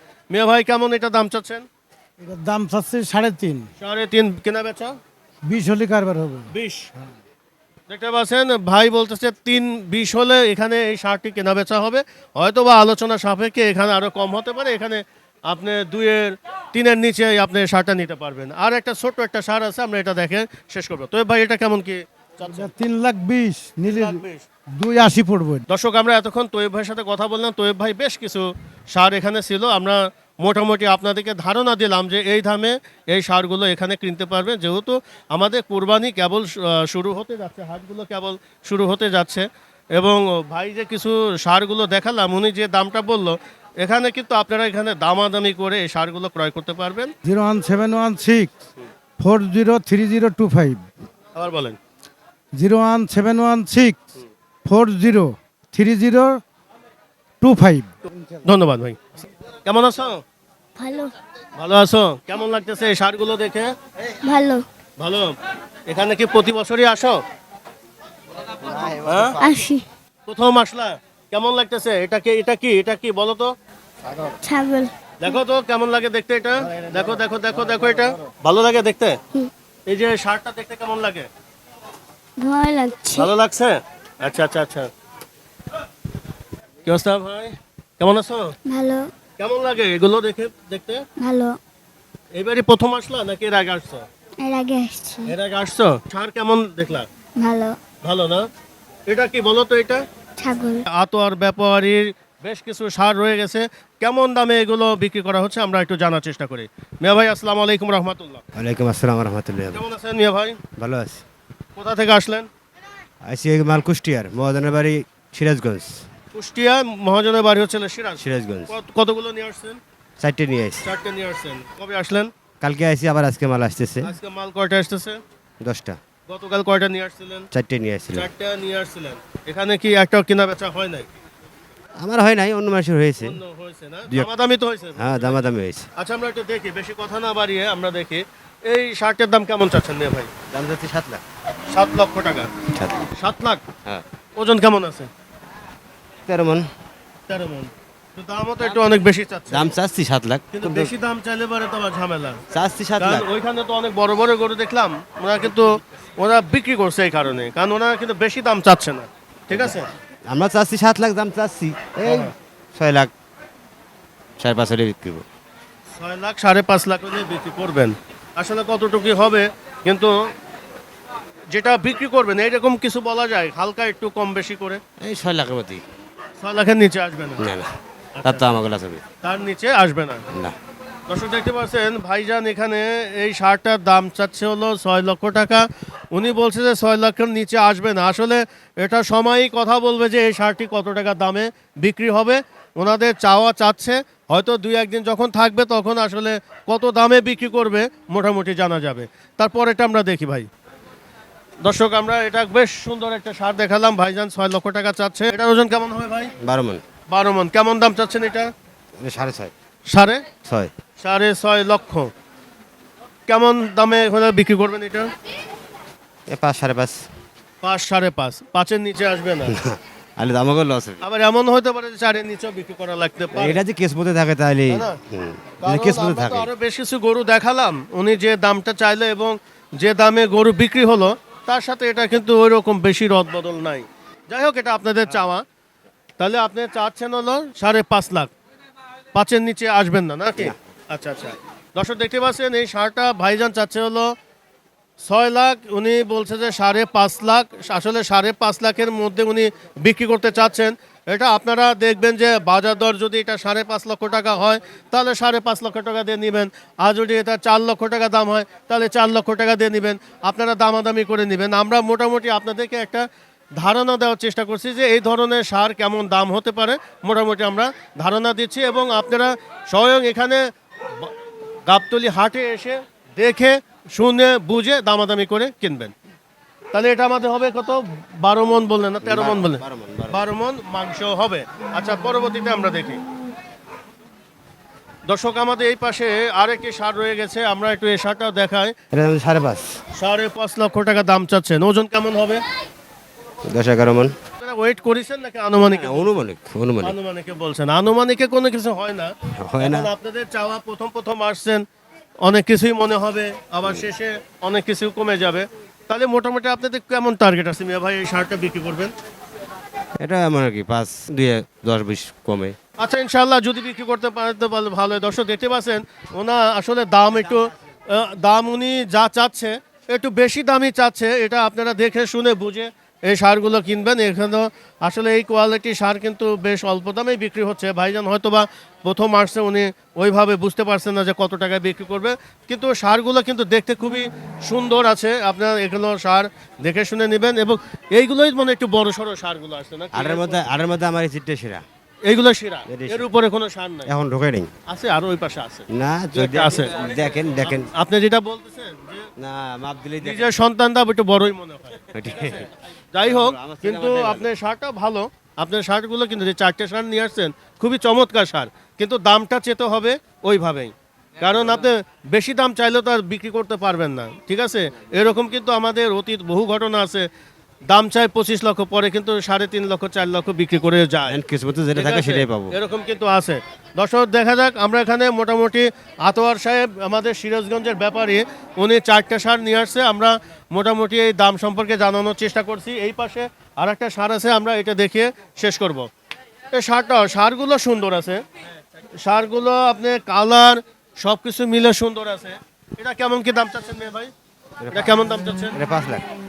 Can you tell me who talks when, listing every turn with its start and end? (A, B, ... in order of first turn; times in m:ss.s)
0:00.3-0:01.6 A
0:02.2-0:03.7 B
0:03.8-0:04.9 A
0:05.4-0:06.5 B
0:06.5-0:06.9 A
0:07.9-0:22.7 A
0:22.4-0:24.2 B
0:23.8-0:24.4 A
0:24.8-0:25.6 B
0:25.7-0:47.1 A
0:47.2-0:48.5 B
0:49.2-0:50.8 B
0:51.3-0:51.8 A
0:52.5-0:54.0 B
0:54.6-0:56.4 B
0:57.4-0:58.4 B
0:58.4-1:00.2 A
1:00.8-1:01.1 C
1:01.6-1:03.7 A
1:04.2-1:04.6 C
1:05.0-1:05.3 A
1:05.9-1:07.2 A
1:08.6-1:09.4 D
1:09.0-1:09.4 A
1:09.4-1:09.8 C
1:10.3-1:13.5 A
1:14.4-1:15.3 C
1:15.2-1:19.2 A
1:19.9-1:21.3 A
1:22.4-1:23.3 C
1:23.1-1:24.9 A
1:26.8-1:28.5 A
1:28.6-1:29.1 C
1:29.4-1:31.0 A
1:31.2-1:31.6 C
1:32.4-1:34.0 A
1:34.4-1:35.3 C
1:35.2-1:37.1 A
1:37.4-1:37.8 C
1:38.0-1:38.5 A
1:39.1-1:40.0 A
1:40.4-1:40.8 C
1:40.9-1:48.4 A
1:48.5-1:49.8 D
1:49.7-1:50.6 A
1:50.8-1:51.2 D
1:51.8-1:52.5 A
1:53.2-1:56.0 D
1:56.3-1:59.8 A
1:58.2-1:58.7 D
2:00.2-2:00.8 D
2:00.8-2:02.3 A
2:02.6-2:04.1 D
2:04.0-2:05.2 A
2:05.6-2:06.0 D
2:06.3-2:07.5 A
2:07.5-2:08.3 D
2:08.1-2:11.1 A
2:12.0-2:13.4 D
2:13.2-2:15.4 A
2:14.9-2:15.9 D
2:16.0-2:20.3 A
2:20.5-2:21.2 D
2:21.7-2:22.5 A
2:22.7-2:23.0 D
2:23.2-2:23.6 A
2:24.4-2:25.1 A
2:26.3-2:26.6 D
2:27.3-2:29.7 A
2:29.5-2:30.9 D
2:30.5-2:32.4 A
2:32.5-2:33.3 D
2:33.0-2:35.7 A
2:36.2-2:39.9 A
2:39.5-2:43.1 D
2:42.0-2:42.3 A
2:44.4-2:45.2 D
2:46.0-2:50.1 A
2:51.5-2:54.8 A
2:55.0-2:55.8 D
2:56.4-2:57.4 A
2:57.4-2:57.7 D
2:58.2-2:58.6 A
2:58.2-2:59.0 D
2:59.2-3:00.2 A
3:01.1-3:20.5 A
3:21.6-3:26.3 A
3:26.4-3:26.8 D
3:27.1-3:28.5 A
3:29.0-3:29.5 D
3:29.9-3:30.2 A
3:30.4-3:30.7 D
3:31.0-3:32.1 A
3:33.3-3:35.1 A
3:36.3-3:37.0 D
3:37.6-3:39.5 A
3:39.5-3:41.0 D
3:41.0-3:43.6 A
3:43.3-3:46.5 D
3:44.7-3:45.0 A
3:45.6-3:55.4 A
3:56.2-3:58.3 A
3:59.1-4:04.1 A
4:05.0-4:23.0 A
4:23.6-4:30.4 A
4:31.7-4:35.9 A
4:36.7-4:43.0 A
4:39.0-4:40.2 D
4:45.0-4:48.7 A
4:48.9-4:49.8 D
4:50.0-4:52.4 A
4:53.4-4:54.1 D
4:54.4-4:56.1 A
4:55.7-4:57.0 D
4:56.8-5:01.6 A
4:59.4-4:59.9 D
5:02.2-5:08.9 A
5:10.0-5:12.6 D
5:12.8-5:40.4 A
5:39.9-5:41.6 D
5:42.0-5:43.9 A
5:42.7-5:43.1 D
5:43.8-5:44.5 D
5:44.7-5:46.8 A
5:45.7-5:47.7 D
5:47.4-5:49.1 A
5:49.2-5:50.3 D
5:50.0-6:07.1 A
5:51.9-5:52.5 D
5:53.0-5:54.3 D
6:07.7-6:11.2 A
6:11.1-6:12.6 D
6:11.7-6:25.9 A
6:26.5-6:28.2 A
6:29.0-6:34.1 A
6:34.6-6:35.0 D
6:34.7-6:35.6 A
6:35.5-6:36.0 D